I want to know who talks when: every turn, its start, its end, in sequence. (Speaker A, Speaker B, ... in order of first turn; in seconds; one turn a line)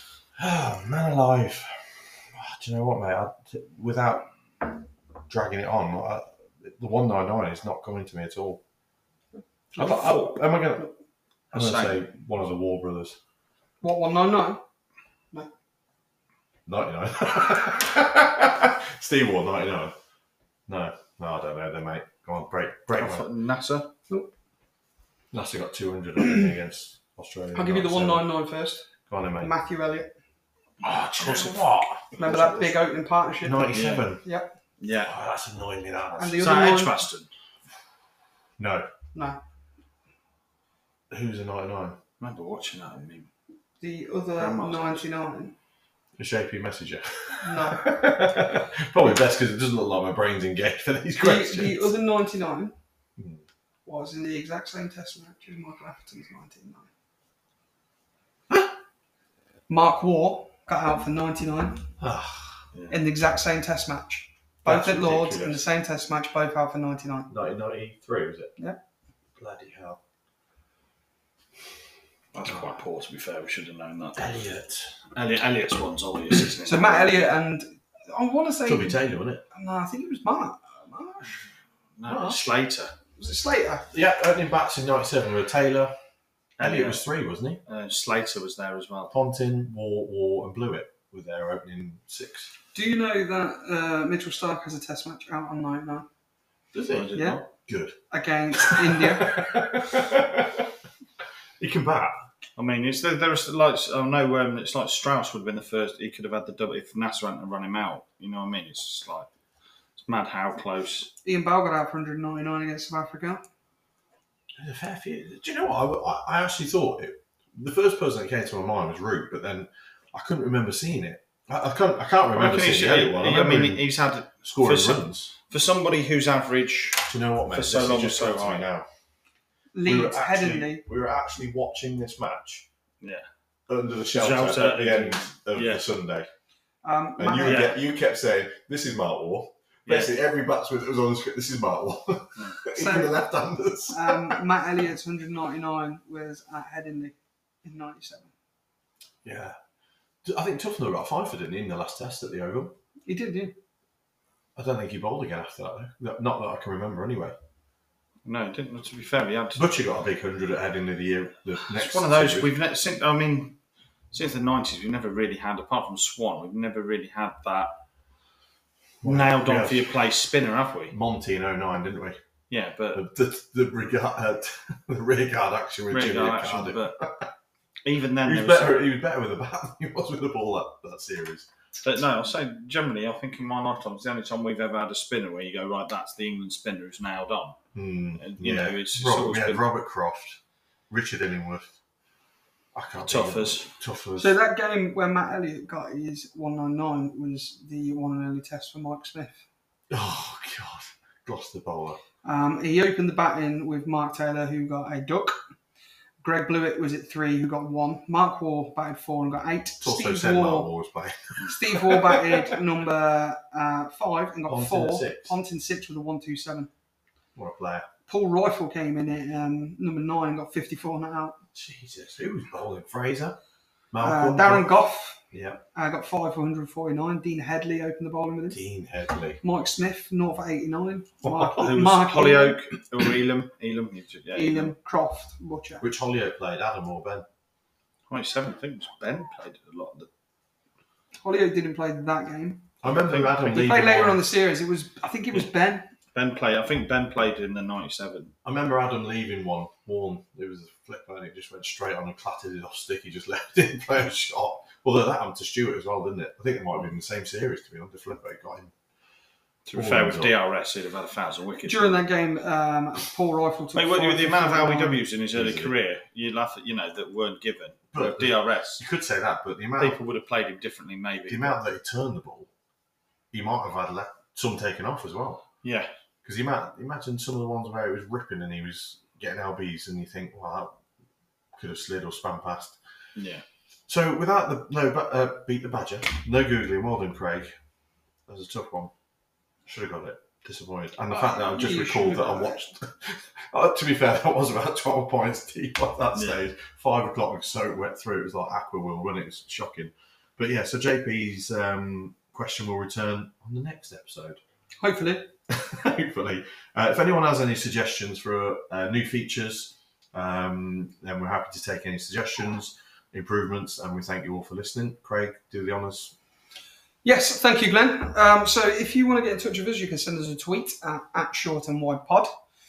Speaker A: 0.4-8.6
Speaker B: 9.8-10.2
Speaker A: 9.8-10.9
Speaker C: 9.9-10.3
Speaker C: 11.5-12.0
Speaker A: 11.5-13.2
Speaker B: 13.8-14.6
Speaker A: 16.7-19.9
Speaker A: 20.7-23.3
Speaker C: 22.9-23.9
Speaker A: 25.3-28.3
Speaker B: 27.5-28.9
Speaker A: 29.1-29.5
Speaker B: 29.4-30.1
Speaker A: 30.8-32.7
Speaker C: 30.8-31.9
Speaker B: 32.2-33.7
Speaker A: 33.4-34.2
Speaker C: 33.7-34.0
Speaker B: 34.2-34.5
Speaker C: 34.8-35.1
Speaker A: 35.0-36.4
Speaker B: 36.2-37.0
Speaker C: 36.4-37.3
Speaker A: 38.6-38.9
Speaker B: 39.1-39.4
Speaker A: 41.1-42.0
Speaker C: 42.2-43.3
Speaker B: 43.8-45.5
Speaker C: 44.4-45.1
Speaker A: 46.2-52.0
Speaker B: 47.4-48.1
Speaker B: 51.2-52.7
Speaker A: 53.2-53.4
Speaker B: 53.9-56.9
Speaker B: 59.7-61.9
Speaker A: 62.0-62.6
Speaker C: 62.7-63.0
Speaker B: 62.9-67.3
Speaker C: 64.7-65.5
Speaker A: 64.7-65.5
Speaker A: 67.3-68.5
Speaker A: 69.4-70.0
Speaker C: 72.3-74.4
Speaker A: 74.2-75.0
Speaker C: 75.1-77.2
Speaker B: 76.6-81.5
Speaker A: 78.7-79.4
Speaker C: 82.0-82.9
Speaker A: 82.1-82.4
Speaker B: 83.2-83.9
Speaker A: 83.9-85.9
Speaker C: 86.6-87.1
Speaker A: 86.6-87.6
Speaker C: 87.7-89.1
Speaker A: 89.1-92.5
Speaker B: 92.7-96.1
Speaker A: 96.7-98.0
Speaker C: 96.9-97.4
Speaker B: 97.1-97.4
Speaker B: 98.1-99.6
Speaker A: 98.5-100.7
Speaker A: 101.6-102.2
Speaker C: 102.5-109.3
Speaker C: 110.0-111.1
Speaker B: 111.2-113.4
Speaker A: 114.6-123.9
Speaker C: 122.3-128.6
Speaker A: 124.4-125.3
Speaker A: 127.1-128.9
Speaker B: 129.7-130.8
Speaker A: 129.8-132.7
Speaker A: 133.7-136.3
Speaker C: 134.1-135.9
Speaker B: 136.8-137.8
Speaker A: 137.2-144.4
Speaker C: 137.4-137.8
Speaker C: 139.9-140.2
Speaker C: 142.4-142.6
Speaker B: 142.7-143.1
Speaker B: 143.9-148.3
Speaker A: 149.2-149.6
Speaker A: 150.2-152.7
Speaker B: 153.1-153.6
Speaker A: 154.6-157.4
Speaker C: 158.2-159.7
Speaker A: 159.5-162.5
Speaker C: 161.7-163.6
Speaker C: 164.1-167.8
Speaker A: 169.0-170.0
Speaker C: 169.0-170.9
Speaker A: 170.9-172.2
Speaker C: 172.5-173.0
Speaker A: 172.9-177.3
Speaker C: 175.9-177.0
Speaker C: 177.8-178.8
Speaker A: 178.2-181.5
Speaker C: 181.8-187.6
Speaker A: 187.7-190.4
Speaker C: 188.2-189.7
Speaker A: 190.9-191.7
Speaker A: 192.7-194.4
Speaker C: 193.0-193.7
Speaker B: 194.2-199.4
Speaker A: 199.9-202.0
Speaker B: 202.2-205.4
Speaker B: 206.2-210.7
Speaker A: 209.8-212.6
Speaker B: 211.4-216.7
Speaker A: 214.5-215.4
Speaker A: 217.4-217.9
Speaker B: 218.1-221.4
Speaker A: 221.5-223.4
Speaker A: 223.9-224.7
Speaker B: 224.0-225.2
Speaker A: 225.3-225.6
Speaker B: 225.7-228.6
Speaker A: 228.5-229.4
Speaker B: 229.4-232.6
Speaker C: 231.4-234.7
Speaker B: 234.3-235.8
Speaker A: 235.8-237.2
Speaker C: 238.1-240.1
Speaker B: 241.2-242.7
Speaker A: 242.8-244.2
Speaker C: 242.9-243.4
Speaker B: 243.4-245.9
Speaker C: 246.1-248.3
Speaker A: 248.4-258.7
Speaker C: 259.6-262.0
Speaker A: 259.7-260.3
Speaker B: 261.6-265.0
Speaker C: 263.7-268.8
Speaker A: 265.3-265.7
Speaker A: 267.9-270.0
Speaker C: 269.8-271.6
Speaker A: 271.3-272.5
Speaker A: 273.3-275.4
Speaker C: 275.6-275.9
Speaker A: 276.2-280.8
Speaker A: 281.5-282.8
Speaker C: 283.1-283.4
Speaker A: 283.9-287.5
Speaker A: 288.3-288.9
Speaker A: 289.6-304.4
Speaker B: 291.1-292.6
Speaker C: 296.1-296.4
Speaker B: 304.8-305.3
Speaker A: 305.5-316.1
Speaker B: 317.0-322.4